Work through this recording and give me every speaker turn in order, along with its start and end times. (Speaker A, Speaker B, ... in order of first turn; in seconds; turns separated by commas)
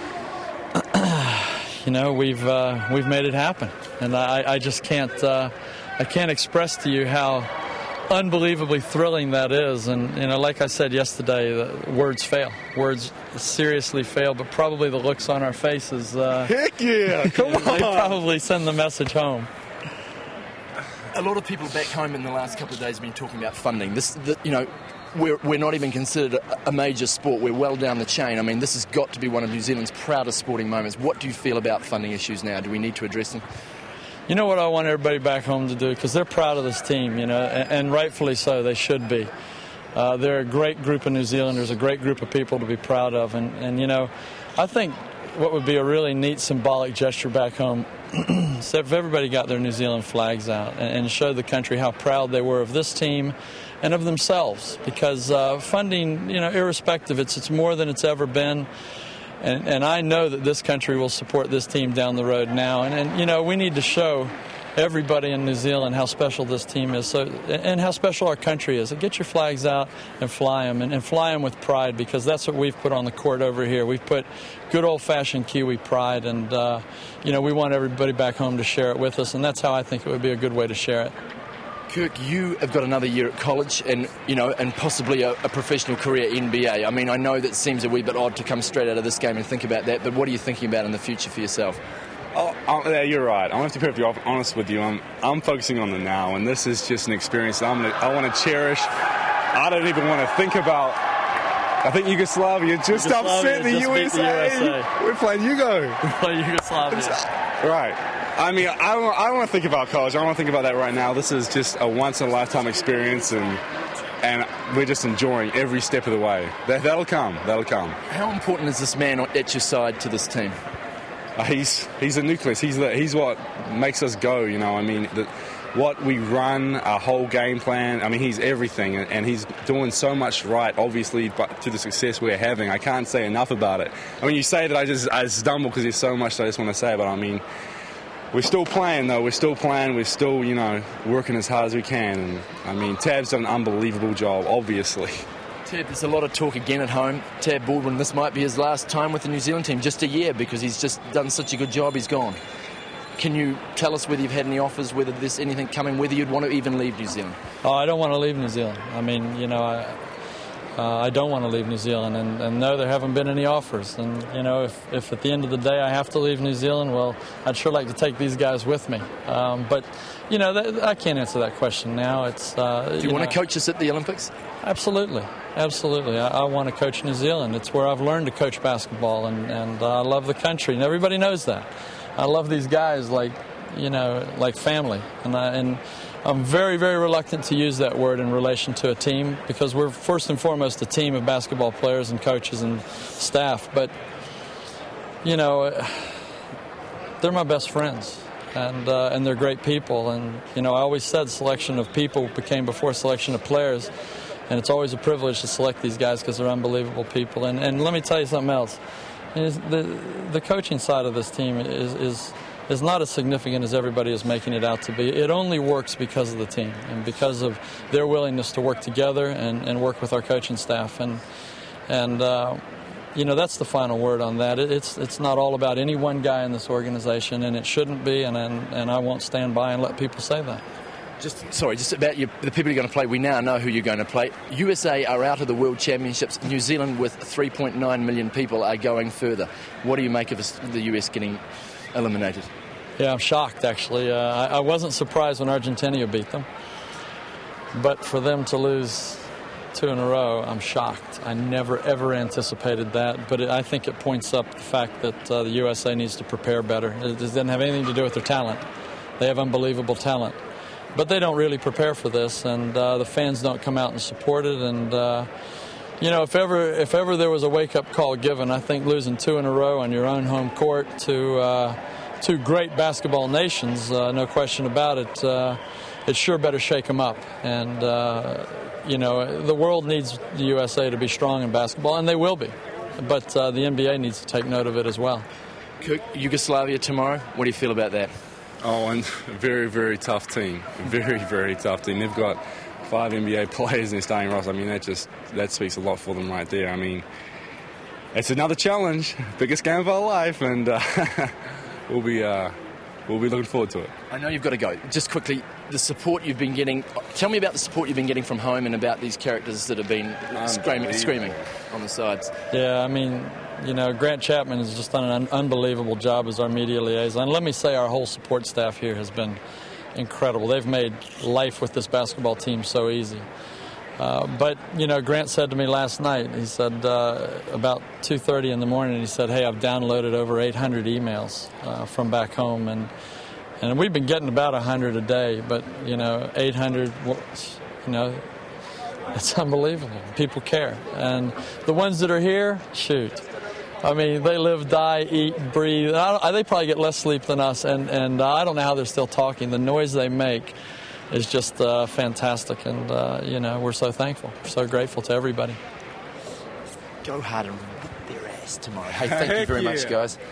Speaker A: 0.7-7.5, Speaker A: 8.1-16.5, Speaker B: 16.4-18.2, Speaker A: 17.2-19.5, Speaker C: 21.1-33.5, Speaker A: 34.3-39.3, Speaker A: 40.0-58.7, Speaker A: 59.4-81.1, Speaker C: 81.9-91.8, Speaker B: 92.3-98.9, Speaker B: 99.5-101.0, Speaker B: 101.8-106.2, Speaker A: 102.9-104.9, Speaker A: 106.1-107.2, Speaker B: 106.9-113.6, Speaker B: 114.2-118.0, Speaker C: 118.1-120.6, Speaker B: 121.4-137.4, Speaker B: 138.3-145.3, Speaker C: 145.7-152.4, Speaker C: 153.2-157.4, Speaker A: 157.6-160.2, Speaker A: 160.8-173.4, Speaker C: 173.0-174.3, Speaker A: 174.6-193.9, Speaker A: 195.2-196.2, Speaker A: 197.2-203.9, Speaker A: 204.5-208.8, Speaker A: 209.3-221.2, Speaker A: 221.9-230.6, Speaker C: 231.2-241.4, Speaker C: 241.9-242.5, Speaker A: 243.0-246.5, Speaker A: 247.7-258.6, Speaker A: 259.2-260.4, Speaker A: 260.9-265.3, Speaker A: 266.0-285.2, Speaker C: 285.8-288.1, Speaker B: 288.6-297.1, Speaker B: 298.1-302.6, Speaker B: 303.1-303.9, Speaker C: 304.1-312.3, Speaker B: 310.3-311.5, Speaker A: 312.5-319.4, Speaker A: 319.9-323.3, Speaker A: 324.0-332.9, Speaker A: 333.6-338.3, Speaker A: 339.1-343.3, Speaker A: 343.8-350.5, Speaker A: 351.1-355.6, Speaker C: 357.0-360.2, Speaker B: 358.9-360.0